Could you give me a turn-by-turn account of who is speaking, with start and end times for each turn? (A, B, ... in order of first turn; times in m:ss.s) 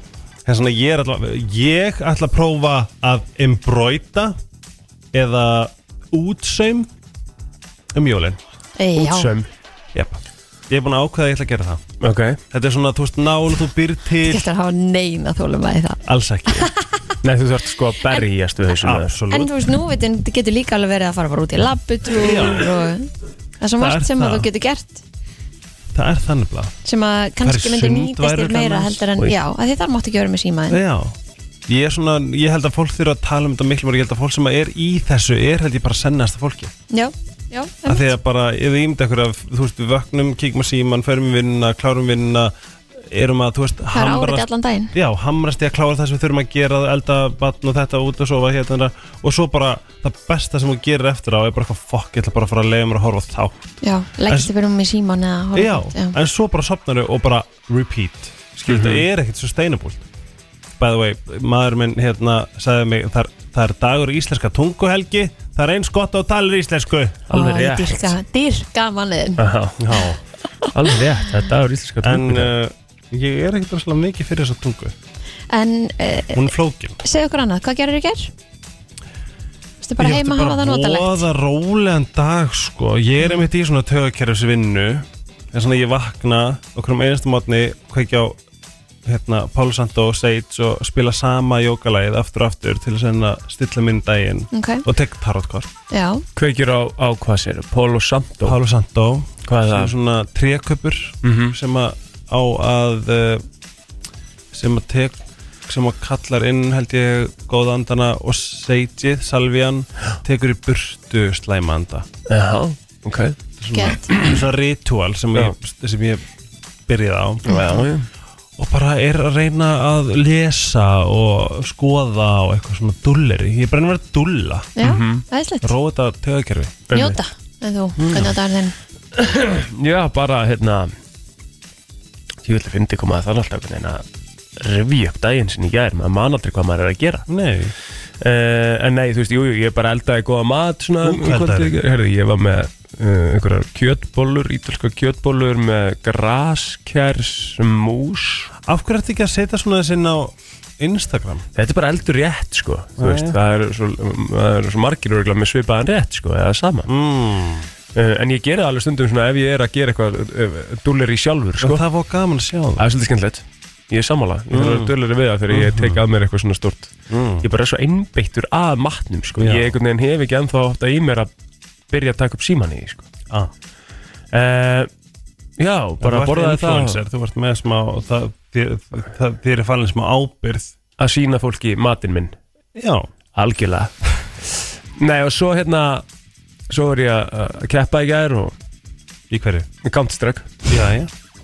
0:00.5-0:04.4 A
0:05.1-0:06.9 A
0:07.9-0:08.4 A
0:08.8-0:09.3 B
0:09.0-0:09.5 C
0:09.9-0:11.8 A
0:12.0-0:12.4 C
0:12.5-0:14.5 A
0:14.2-0:16.0 B
0:16.0-0:16.7 A
0:17.2-0:19.2 C
0:18.8-0:19.5 A
0:19.3-0:25.0 B
0:22.1-0:22.7 A
0:23.8-0:24.5 A
0:25.9-0:26.7 A
0:26.8-0:30.8 B
0:27.4-0:29.1 A
0:30.7-0:31.2 A
0:31.7-0:36.7 A
0:36.9-0:38.1 B
0:37.9-0:53.7 A
0:43.9-0:44.9 B
0:53.8-0:56.2 B
0:55.6-1:00.0 A
0:58.7-0:59.0 C
1:00.8-1:07.2 A
1:07.3-1:08.2 C
1:07.3-1:09.4 B
1:09.4-1:09.8 C
1:09.8-1:10.2 A
1:10.7-1:12.5 C
1:12.0-1:14.9 A
1:15.5-1:16.5 B
1:16.4-1:17.0 A
1:17.0-1:18.3 B
1:19.8-1:21.3 B
1:20.0-1:28.4 A
1:29.0-1:35.7 A
1:34.5-1:34.8 B
1:35.9-1:36.2 B
1:36.4-1:38.6 C
1:38.4-1:43.4 A
1:39.5-1:39.9 C
1:41.2-1:41.6 C
1:44.5-1:52.1 A
1:52.3-1:53.4 C
1:53.6-1:56.3 A
1:53.7-1:54.1 B
1:56.9-1:57.4 A
1:57.5-1:58.1 C
1:57.5-1:57.8 B
1:58.6-2:04.7 A
2:04.8-2:05.7 B
2:04.8-2:05.2 C
2:05.6-2:06.9 A
2:06.9-2:07.2 C
2:06.9-2:08.8 B
2:08.0-2:08.3 A
2:09.2-2:10.9 C
2:12.4-2:14.0 C
2:14.6-2:17.3 C
2:17.3-2:17.7 A
2:18.2-2:28.5 C
2:21.0-2:21.7 A
2:28.6-2:31.5 A
2:31.6-2:36.9 C
2:33.0-2:33.4 A
2:36.9-2:37.7 A
2:38.0-2:41.8 C
2:41.6-2:42.9 A
2:42.8-2:51.3 C
2:44.5-2:44.9 A
2:45.5-2:46.0 A
2:47.1-2:47.5 A
2:49.4-2:49.8 A
2:51.9-2:53.1 C
2:54.3-2:54.9 C
2:55.6-2:57.0 C
2:56.0-3:00.7 A
3:01.0-3:02.3 C
3:02.8-3:03.1 A
3:03.4-3:03.9 C
3:05.0-3:06.0 C
3:06.7-3:08.5 C
3:09.3-3:09.7 A
3:09.8-3:10.7 C
3:10.7-3:11.1 A